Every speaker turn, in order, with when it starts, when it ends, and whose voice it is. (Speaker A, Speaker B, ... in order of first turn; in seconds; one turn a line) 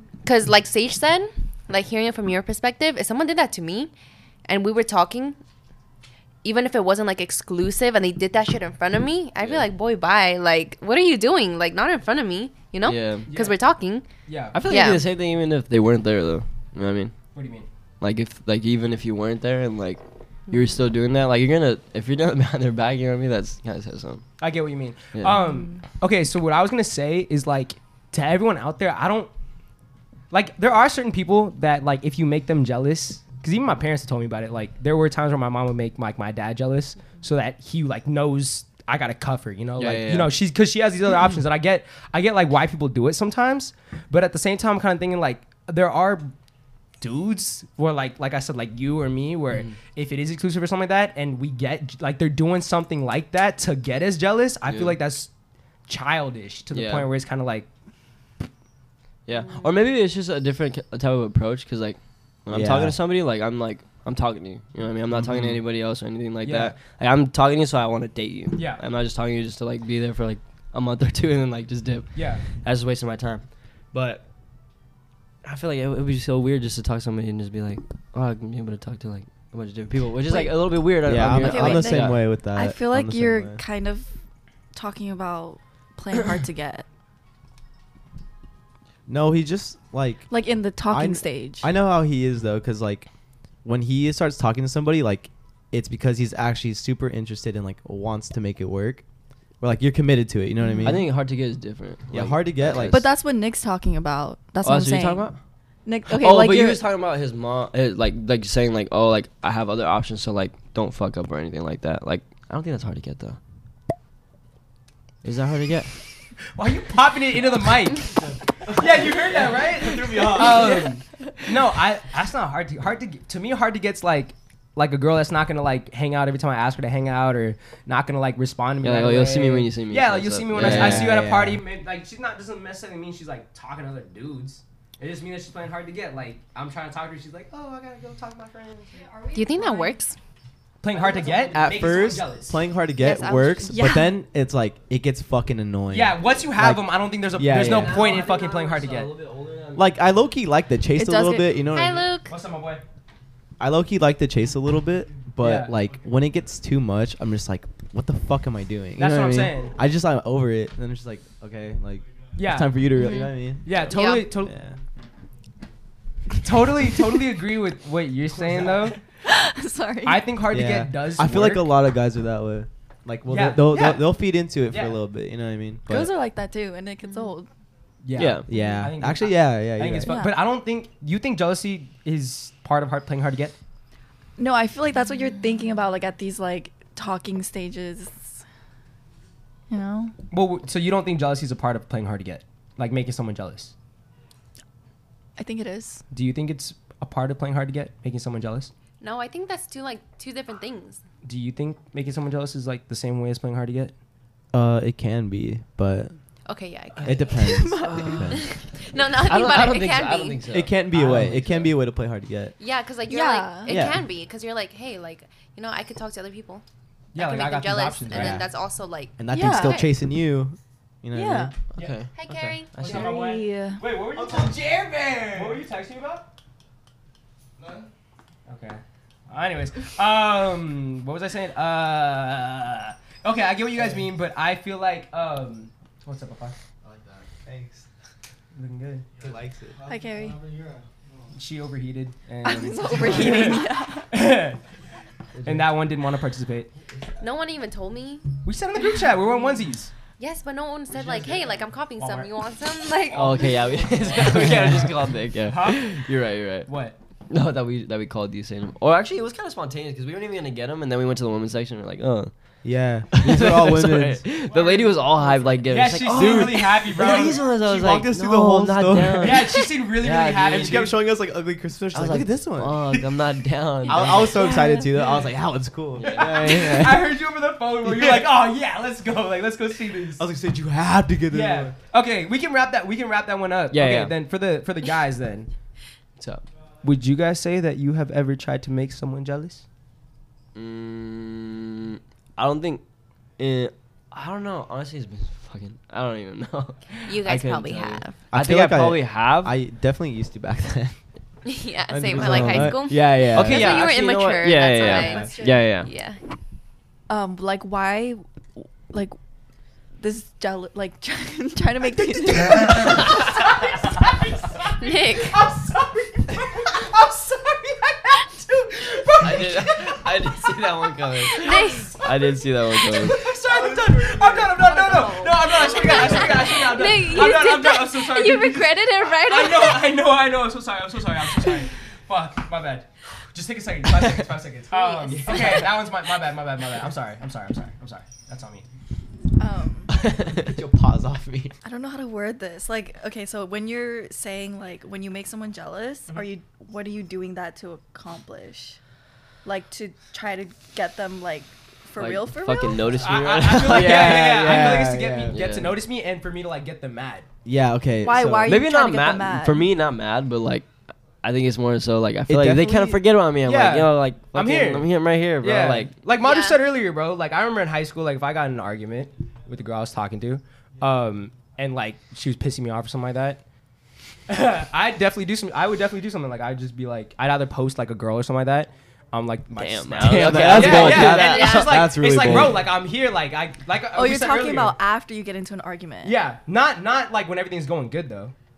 Speaker A: 0.2-3.9
Speaker A: 4.5-5.4
Speaker A: 6.4-14.1
Speaker B: 9.4-9.7
Speaker B: 12.8-13.3
Speaker C: 13.3-13.6
Speaker C: 14.3-14.6
Speaker B: 14.5-17.2
Speaker A: 14.7-15.0
Speaker C: 17.3-17.7
Speaker B: 18.0-24.3
Speaker C: 24.4-29.3
Speaker B: 25.1-25.4
Speaker C: 30.3-46.3
Speaker B: 39.8-40.4
Speaker C: 47.0-55.3
Speaker B: 49.5-49.8
Speaker B: 54.6-55.0
Speaker C: 55.9-57.7
Speaker B: 56.7-57.1
Speaker B: 59.3-74.2
Speaker D: 62.5-63.0
Speaker C: 65.2-65.6
Speaker C: 66.4-66.8
Speaker C: 68.5-68.8
Speaker C: 72.2-72.4
Speaker B: 75.4-82.2
Speaker E: 80.2-84.1
Speaker D: 81.0-83.6
Speaker E: 84.7-86.9
Speaker D: 89.1-90.3
Speaker E: 90.3-91.7
Speaker D: 90.9-93.1
Speaker D: 93.6-99.0
Speaker D: 99.6-101.1
Speaker E: 100.6-101.0
Speaker B: 100.8-103.1
Speaker D: 102.1-103.0
Speaker E: 102.9-105.3
Speaker B: 104.6-105.4
Speaker E: 105.9-106.8
Speaker B: 106.1-113.4
Speaker B: 115.2-116.0
Speaker C: 116.5-118.2
Speaker F: 118.2-120.9
Speaker C: 118.8-139.0
Speaker D: 120.1-120.5
Speaker B: 128.8-131.2
Speaker D: 130.5-131.6
Speaker E: 138.9-140.0
Speaker A: 139.3-140.2
Speaker C: 140.8-142.6
Speaker D: 141.5-148.2
Speaker A: 143.0-143.8
Speaker E: 143.7-144.2
Speaker C: 145.9-149.1
Speaker B: 147.5-150.0
Speaker D: 149.7-152.1
Speaker E: 151.0-151.6
Speaker A: 151.7-152.3
Speaker C: 152.2-152.8
Speaker D: 153.6-164.8
Speaker C: 155.4-155.8
Speaker C: 159.0-159.8
Speaker C: 162.4-162.8
Speaker A: 162.9-163.4
Speaker C: 163.6-164.6
Speaker A: 163.9-164.3
Speaker C: 166.4-169.0
Speaker E: 169.2-170.3
Speaker C: 170.0-171.7
Speaker D: 170.5-176.1
Speaker C: 173.3-174.1
Speaker C: 174.7-175.0
Speaker E: 175.9-177.5
Speaker C: 178.0-183.6
Speaker B: 178.2-178.5
Speaker D: 178.4-180.2
Speaker E: 180.1-180.4
Speaker E: 184.4-188.4
Speaker E: 189.7-190.1
Speaker C: 190.3-193.7
Speaker E: 195.4-196.0
Speaker C: 196.1-198.7
Speaker A: 199.0-201.0
Speaker C: 201.2-203.9
Speaker D: 204.5-206.1
Speaker A: 206.5-207.4
Speaker D: 207.0-208.5
Speaker E: 207.4-208.3
Speaker B: 207.8-208.4
Speaker A: 208.3-210.4
Speaker B: 209.2-211.8
Speaker D: 210.5-212.6
Speaker A: 212.6-216.6
Speaker E: 213.1-213.8
Speaker D: 213.7-214.0
Speaker C: 217.1-218.4
Speaker A: 217.2-219.2
Speaker D: 218.1-218.4
Speaker D: 219.2-221.6
Speaker E: 219.3-219.9
Speaker E: 221.1-221.5
Speaker C: 221.8-222.0
Speaker B: 221.8-223.2
Speaker A: 222.2-222.8
Speaker C: 222.8-224.6
Speaker E: 222.8-223.8
Speaker F: 224.1-225.6
Speaker D: 224.3-224.7
Speaker C: 225.2-226.3
Speaker F: 227.6-227.9
Speaker C: 228.5-236.6
Speaker F: 236.8-237.3
Speaker D: 237.4-237.9
Speaker C: 238.5-239.1
Speaker F: 239.2-240.9
Speaker D: 239.2-239.8
Speaker E: 239.9-240.4
Speaker C: 241.3-244.6
Speaker E: 242.4-244.1
Speaker B: 245.4-245.7
Speaker C: 245.4-246.7
Speaker A: 247.2-248.4
Speaker C: 248.4-249.9
Speaker A: 250.2-253.6
Speaker C: 250.9-251.4
Speaker C: 252.0-252.3
Speaker B: 253.1-256.7
Speaker C: 253.1-253.5
Speaker C: 254.1-254.9
Speaker C: 255.4-255.9
Speaker C: 256.7-257.0
Speaker B: 257.3-262.6
Speaker D: 262.6-264.3
Speaker B: 263.1-270.9
Speaker F: 264.5-265.5
Speaker C: 265.7-267.6
Speaker D: 266.1-266.6
Speaker D: 267.5-269.5
Speaker C: 269.2-270.9
Speaker D: 270.5-273.1
Speaker B: 271.9-274.4
Speaker D: 273.9-277.1
Speaker A: 273.9-274.4
Speaker E: 274.4-274.9
Speaker B: 276.0-277.1
Speaker C: 276.0-280.2
Speaker D: 277.8-278.3
Speaker D: 280.2-281.8
Speaker C: 281.3-285.5
Speaker B: 283.7-284.2
Speaker B: 286.2-286.4
Speaker C: 286.8-289.6
Speaker B: 290.6-292.8
Speaker B: 293.4-299.6
Speaker A: 297.1-298.2
Speaker D: 298.3-301.0
Speaker A: 301.4-306.2
Speaker D: 301.9-303.8
Speaker B: 302.1-305.9
Speaker E: 304.8-305.6
Speaker E: 307.1-309.2
Speaker E: 310.0-312.9
Speaker C: 312.3-314.1
Speaker C: 314.6-320.1
Speaker A: 314.8-315.4
Speaker B: 319.2-323.3
Speaker C: 321.2-338.6
Speaker A: 321.4-322.0
Speaker F: 323.4-324.6
Speaker E: 324.6-326.5
Speaker A: 324.8-329.9
Speaker A: 334.7-335.7
Speaker E: 339.4-339.9
Speaker B: 339.9-340.6
Speaker D: 340.3-341.5
Speaker E: 341.6-348.8
Speaker E: 349.4-353.0
Speaker B: 352.0-355.8
Speaker C: 353.0-357.3
Speaker D: 353.5-355.4
Speaker D: 357.4-358.6
Speaker E: 358.0-359.7
Speaker B: 358.5-360.7
Speaker B: 361.2-365.9
Speaker D: 362.3-363.1
Speaker C: 363.4-373.4
Speaker A: 366.2-366.6
Speaker C: 374.3-384.8
Speaker B: 379.5-382.5
Speaker D: 380.0-382.7
Speaker A: 381.0-381.9
Speaker E: 383.9-386.2
Speaker C: 386.0-388.4